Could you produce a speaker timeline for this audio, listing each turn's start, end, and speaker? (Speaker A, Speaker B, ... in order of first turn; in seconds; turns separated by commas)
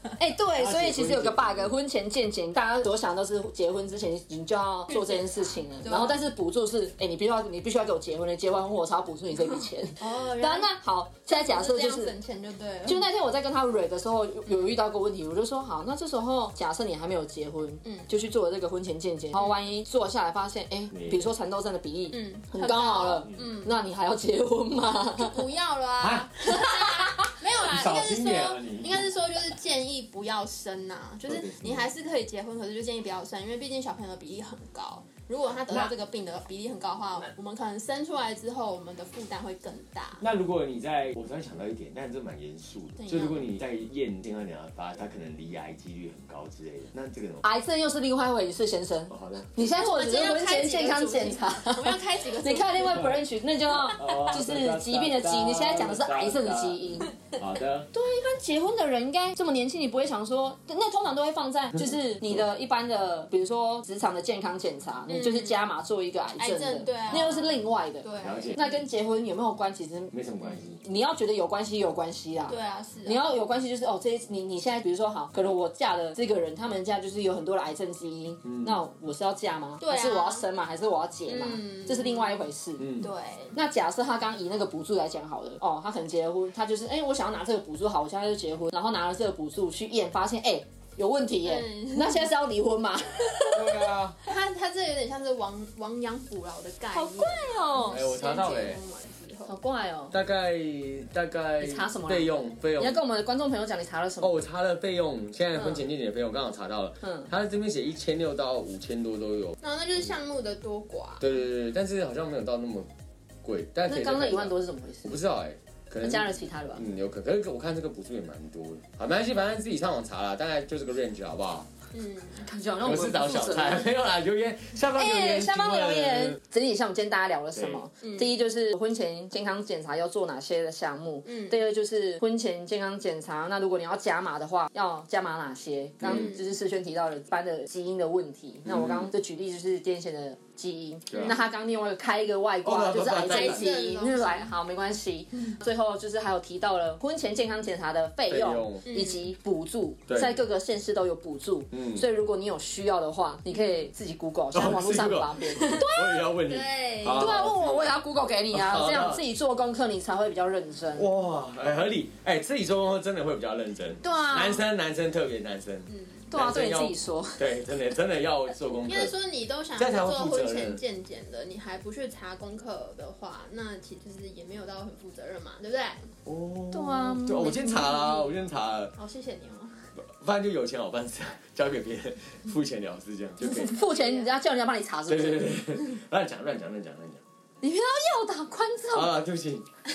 Speaker A: 0.2-12.1, Speaker B: 0.6-1.8, Speaker C: 4.9-6.2, Speaker C: 10.0-10.7, Speaker C: 11.3-13.1, Speaker A: 12.8-25.4, Speaker C: 14.5-14.8, Speaker C: 17.8-18.1, Speaker B: 20.9-21.3, Speaker C: 22.1-23.8, Speaker C: 25.1-40.2, Speaker B: 26.0-26.3, Speaker A: 26.4-27.3, Speaker B: 27.6-29.1, Speaker B: 31.3-31.9, Speaker B: 40.2-47.4, Speaker C: 43.0-43.5, Speaker A: 47.4-57.1, Speaker B: 49.1-49.5, Speaker C: 49.6-53.1, Speaker B: 53.7-57.9, Speaker A: 57.9-70.1, Speaker C: 65.1-65.6, Speaker C: 66.4-68.8, Speaker B: 68.2-68.6, Speaker B: 70.1-70.8, Speaker A: 70.8-82.9, Speaker C: 72.5-73.4, Speaker B: 78.4-78.8, Speaker C: 79.8-80.5, Speaker C: 81.3-82.4, Speaker B: 82.8-83.1, Speaker C: 83.0-83.6, Speaker A: 83.5-93.9, Speaker C: 91.4-92.3, Speaker B: 93.5-94.2, Speaker C: 94.3-99.5, Speaker A: 96.9-98.1, Speaker B: 97.9-98.8, Speaker A: 99.5-100.2, Speaker B: 100.1-103.0, Speaker A: 101.6-104.4, Speaker B: 104.2-109.6, Speaker A: 105.6-105.8, Speaker A: 107.0-107.3, Speaker C: 109.6-111.2, Speaker B: 111.2-112.9, Speaker B: 113.4-121.7, Speaker A: 113.9-115.2, Speaker A: 116.0-116.8, Speaker C: 121.9-122.5, Speaker A: 122.4-123.8, Speaker B: 122.8-126.4, Speaker A: 125.0-155.8, Speaker B: 127.5-127.9, Speaker C: 128.0-128.3, Speaker C: 131.2-131.6, Speaker B: 136.0-136.3, Speaker C: 136.0-136.5, Speaker B: 138.7-139.1, Speaker B: 141.1-141.4, Speaker C: 141.1-141.4, Speaker B: 142.6-143.7, Speaker C: 143.2-144.5, Speaker B: 148.3-148.9, Speaker C: 148.9-149.3, Speaker B: 150.1-150.4, Speaker B: 151.7-152.1, Speaker B: 154.5-158.0, Speaker C: 155.6-157.4, Speaker A: 157.1-161.1, Speaker B: 158.5-159.2, Speaker B: 161.0-169.1, Speaker A: 164.0-164.7, Speaker C: 165.9-166.3, Speaker A: 166.3-167.4, Speaker C: 168.8-176.1, Speaker B: 169.8-170.8, Speaker B: 176.2-178.9, Speaker A: 176.7-178.3, Speaker C: 179.0-179.8, Speaker B: 180.0-183.8, Speaker A: 183.4-185.5, Speaker C: 183.7-184.3, Speaker B: 185.1-187.2, Speaker A: 187.6-189.1, Speaker B: 188.9-189.7